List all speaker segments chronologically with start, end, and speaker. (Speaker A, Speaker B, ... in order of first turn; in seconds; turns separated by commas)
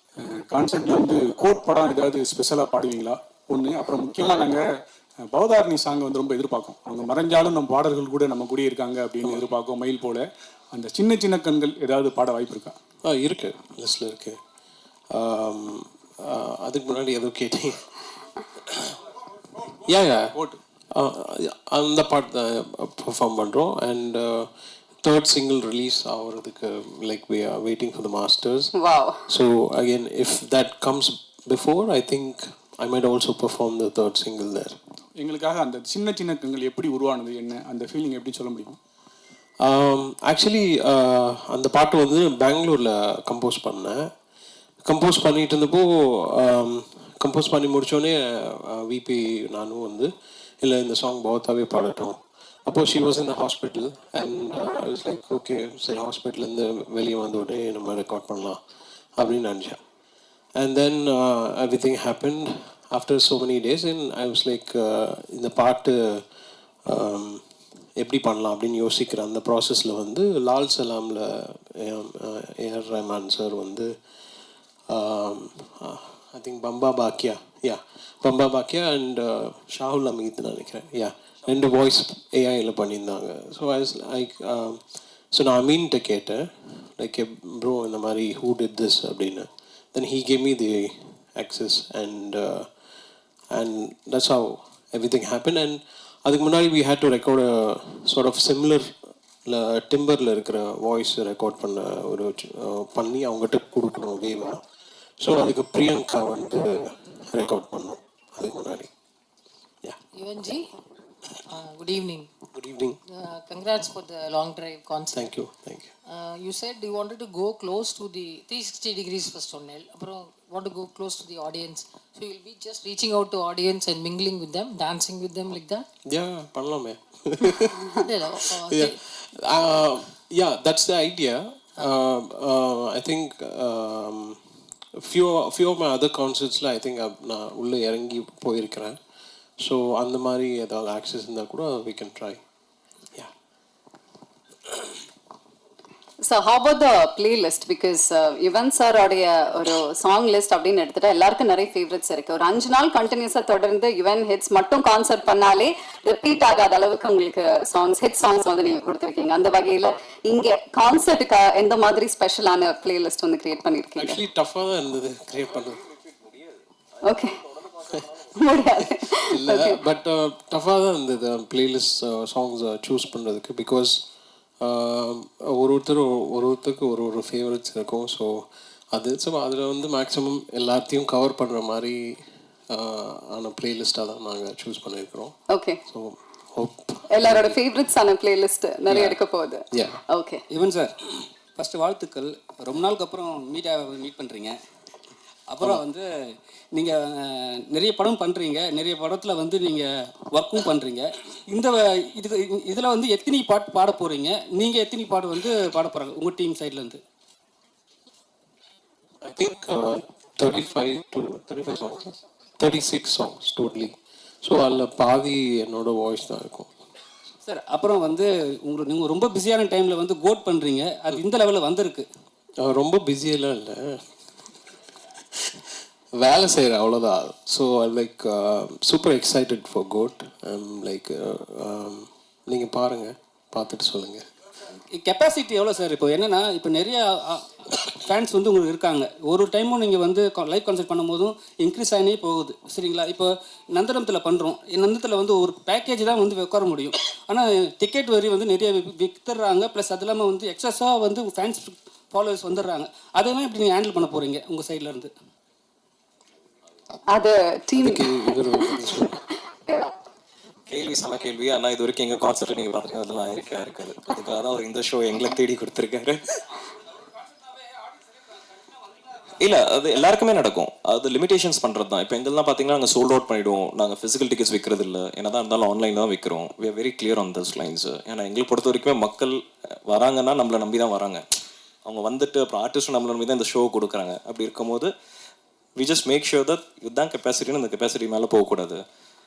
Speaker A: 0.2-4.7, Speaker A: 5.3-12.8, Speaker B: 13.1-14.4, Speaker B: 15.1-17.9, Speaker B: 18.6-19.0, Speaker B: 19.8-20.4, Speaker B: 20.9-24.5, Speaker B: 25.0-28.7, Speaker C: 28.7-29.2, Speaker B: 29.3-34.8, Speaker A: 35.2-38.8, Speaker B: 39.6-44.1, Speaker B: 44.9-50.1, Speaker B: 50.6-58.6, Speaker B: 59.2-59.8, Speaker B: 60.5-66.2, Speaker B: 66.8-67.4, Speaker B: 68.0-73.9, Speaker B: 74.9-84.8, Speaker B: 85.3-92.7, Speaker B: 93.5-98.9, Speaker B: 99.5-104.6, Speaker B: 105.2-108.9, Speaker D: 110.2-110.7, Speaker D: 111.5-112.3, Speaker B: 112.5-113.0, Speaker D: 113.1-115.3, Speaker B: 115.1-115.9, Speaker D: 116.1-125.8, Speaker B: 126.0-127.8, Speaker D: 127.8-128.9, Speaker B: 128.5-134.4, Speaker B: 134.9-139.0, Speaker B: 139.6-142.4, Speaker C: 146.2-164.2, Speaker B: 164.0-165.8, Speaker C: 167.0-167.4, Speaker C: 168.3-169.8, Speaker B: 169.3-174.0, Speaker B: 174.6-185.3, Speaker C: 185.5-185.8, Speaker B: 185.9-187.6, Speaker C: 187.1-190.4, Speaker E: 188.9-189.2, Speaker B: 189.7-190.0, Speaker E: 190.5-194.6, Speaker E: 195.5-196.1, Speaker E: 196.7-207.0, Speaker B: 209.2-216.7, Speaker E: 217.4-222.1, Speaker B: 222.6-224.0, Speaker B: 225.4-234.2, Speaker E: 234.9-255.1, Speaker C: 257.1-258.9, Speaker B: 257.8-259.2, Speaker C: 259.5-259.9, Speaker F: 260.7-266.2, Speaker E: 267.1-269.2, Speaker F: 269.4-281.2, Speaker F: 281.8-284.9, Speaker F: 285.8-288.8